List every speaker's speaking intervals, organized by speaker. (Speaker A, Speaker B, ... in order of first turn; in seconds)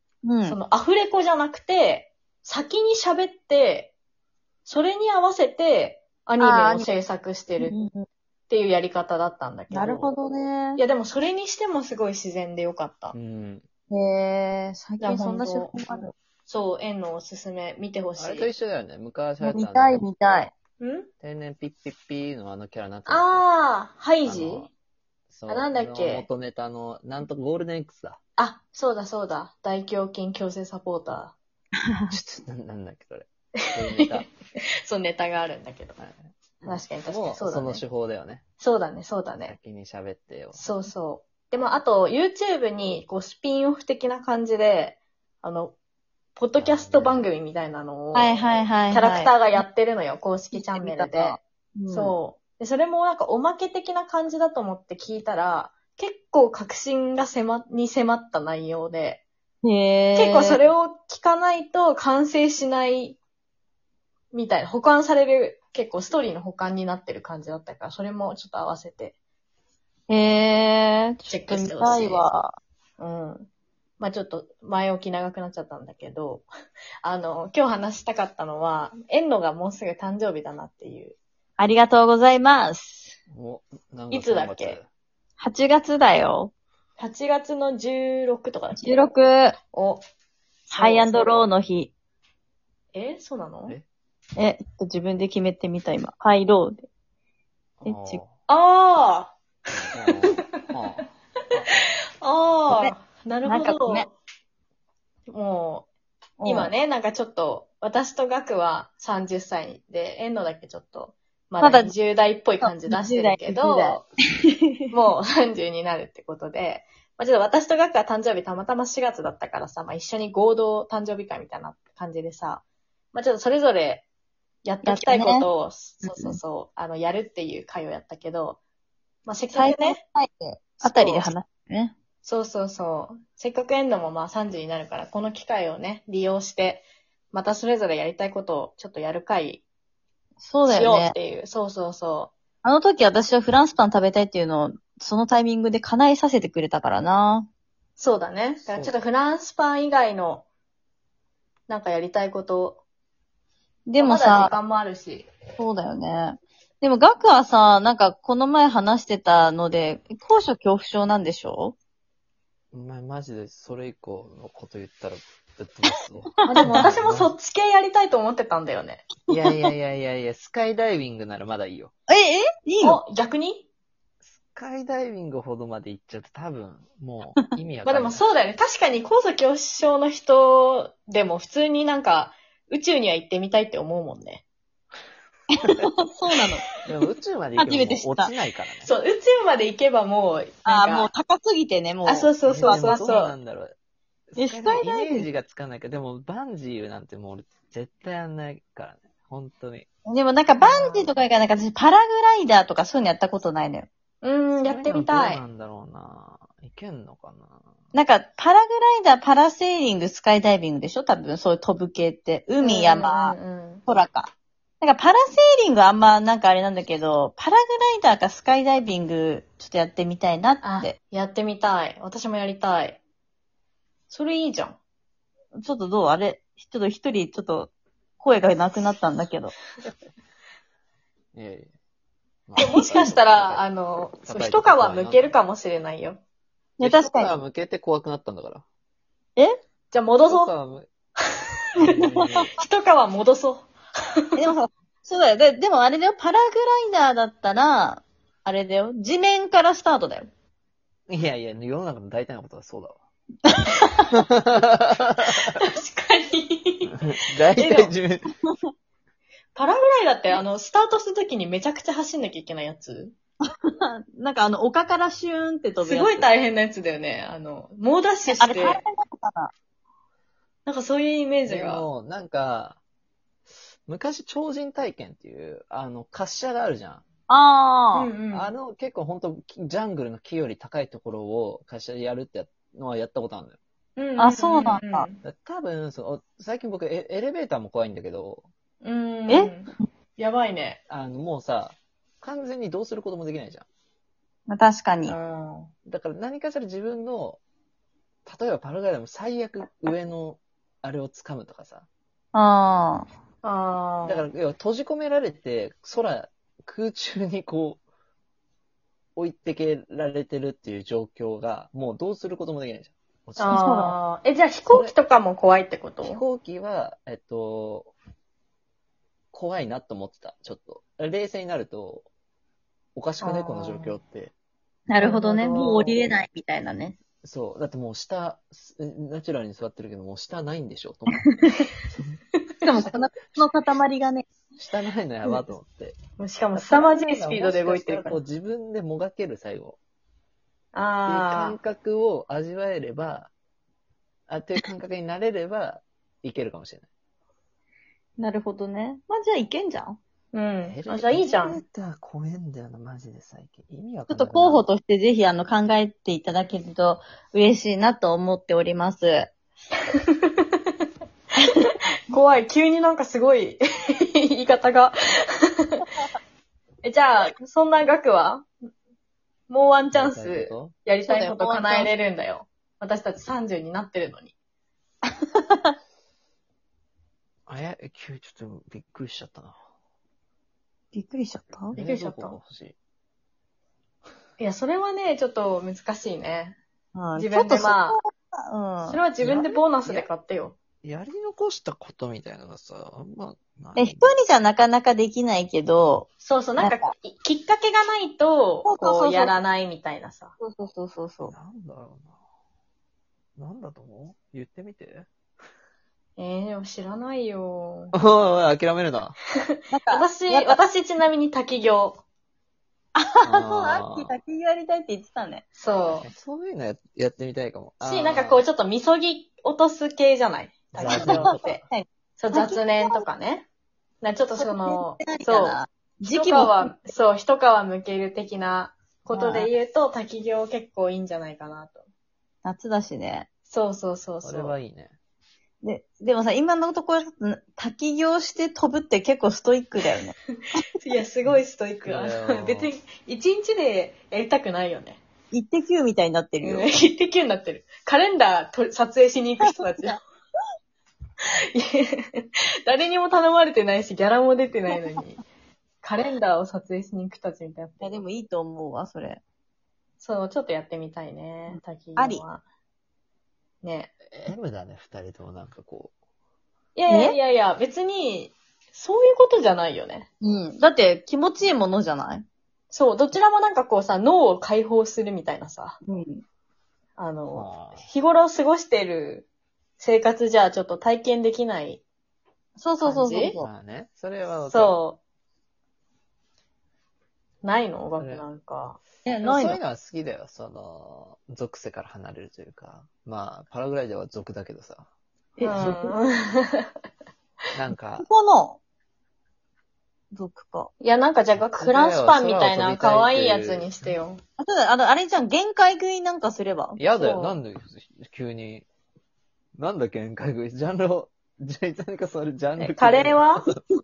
Speaker A: 0.2-0.6, 6.4-6.9, 7.6-8.0, 9.7-10.8, 13.9-16.1, 19.4-20.5, 48.1-49.6, 50.5-52.1, 59.6-60.6, 70.1-72.5, 81.6-83.2, 85.4-86.5, 88.7-89.5, 90.7-91.9, 94.4-96.9, 97.8-98.2, 102.7-102.9, 103.4-104.1, 106.4-106.7, 111.6-111.9, 112.6-114.0, 114.5-114.8, 124.8-125.5, 126.0-126.4, 129.5-131.9, 140.4-141.1, 142.6-147.5, 153.9-154.6, 155.6-161.8, 166.4-166.8, 169.3-169.6, 172.1-173.0, 185.6-186.7, 187.6-188.3, 190.6-192.9, 194.4-195.3, 200.1-203.9, 207.9-213.3, 213.9-220.9, 225.6-229.5, 232.7-233.0, 236.8-237.4, 242.1-242.4, 244.4-250.3, 253.5-254.1, 264.1-266.2, 268.3-269.5, 277.3-278.1, 284.2-285.1, 289.3-289.9, 294.5-295.1, 302.3-303.1, 313.5-313.9, 324.9-326.9, 331.1-331.7, 332.6-334.2, 348.2-350.0, 354.1-359.3, 371.1-371.9, 380.9-381.8, 386.9-389.0, 393.8-396.9, 398.6-399.4, 400.4-401.3, 409.7-410.6, 412.9-415.4, 420.9-423.0, 424.4-426.9, 429.1-429.5, 432.4-433.3, 435.6-440.1, 445.3-446.7, 449.4-450.0, 457.8-459.2, 461.5-462.2, 466.9-467.1, 470.2-472.2, 475.9-476.2, 482.6-483.5, 489.0-489.6, 495.4-495.9, 498.0-498.6, 500.1-500.7, 504.4-506.8
Speaker B: 0.4-3.9, 4.6-7.8, 8.5-10.1, 10.8-13.1, 15.0-15.8, 16.4-18.5, 20.8-21.1, 23.1-24.7, 25.5-26.2, 28.4-31.3, 34.9-36.0, 36.6-37.8, 38.6-39.5, 40.5-45.8, 46.4-48.3, 48.9-51.4, 51.9-59.2, 60.1-63.2, 64.3-69.2, 71.2-72.2, 73.0-76.5, 77.0-81.2, 84.1-84.8, 87.0-89.1, 89.7-90.0, 90.7-91.5, 92.9-93.8, 98.5-99.3, 101.7-104.1, 105.3-105.9, 106.4-114.0, 114.9-124.1, 124.6-128.6, 129.2-130.0, 130.8-131.3, 132.2-139.6, 140.7-142.3, 148.0-150.4, 151.7-152.8, 154.0-155.3, 166.4-169.0, 172.8-173.7, 177.8-184.4, 188.8-191.1, 192.1-193.3, 200.6-201.1, 204.2-205.4, 212.6-213.8, 220.6-223.0, 224.1-224.8, 232.6-236.2, 239.9-240.5, 242.3-243.7, 255.4-256.9, 257.5-257.9, 259.5-263.1, 265.8-268.8, 270.6-271.8, 277.9-278.5, 284.0-285.2, 288.8-290.8, 295.1-295.7, 303.4-304.2, 313.4-316.2, 323.2-324.0, 325.0-326.0, 336.2-338.2, 340.7-341.6, 350.3-351.6, 361.6-363.6, 364.1-365.8, 366.8-368.5, 369.5-374.3, 381.8-382.4, 384.4-386.6, 387.1-388.0, 388.9-390.6, 396.2-400.3, 406.2-407.9, 409.9-412.0, 415.5-416.1, 417.8-421.6, 422.2-423.5, 424.0-431.8, 433.5-434.6, 440.8-445.0, 446.4-450.0, 451.5-455.2, 455.8-457.9, 460.0-462.4, 463.6-463.9, 466.8-470.1, 472.7-475.8, 477.0-479.3, 479.8-481.8, 482.8-483.4, 484.5-485.0, 487.4-488.8, 495.4-496.7, 500.8-504.2, 506.9-507.4, 512.8-513.5
Speaker C: 13.1-13.6, 18.2-20.0, 21.2-23.4, 24.2-24.7, 25.3-28.2, 32.1-34.3, 36.0-38.4, 39.4-40.7, 46.6-47.3, 83.3-84.9, 97.8-98.3, 99.9-101.0, 148.7-148.9, 162.7-167.3, 169.3-171.9, 174.2-178.2, 186.8-188.9, 192.4-193.8, 194.3-199.9, 204.6-207.6, 231.3-231.7, 232.5-233.6, 234.2-235.3, 236.8-238.6, 240.3-240.9, 241.8-242.6, 251.1-253.0, 254.1-255.6, 256.9-258.3, 271.4-272.8, 273.9-277.0, 278.3-283.6, 285.2-288.5, 290.9-293.6, 295.9-297.4, 298.2-301.9, 304.0-307.8, 309.1-313.6, 314.7-314.9, 316.0-317.9, 319.3-322.1, 322.9-324.3, 327.2-331.3, 331.9-332.2, 332.8-333.4, 334.6-336.0, 336.5-339.8, 341.1-343.3, 344.3-346.9, 350.6-354.6, 369.9-370.8, 377.5-379.6, 381.7-382.8, 389.2-390.1, 390.8-394.1, 401.2-402.1, 403.4-405.1, 407.9-409.1, 413.2-414.1, 416.0-418.4, 420.8-421.4, 434.2-434.9, 441.8-442.7, 464.1-465.9, 477.3-477.9, 483.4-484.8, 488.0-488.2, 489.2-494.9, 497.5-498.1, 501.4-503.9, 506.8-508.6, 509.6-513.6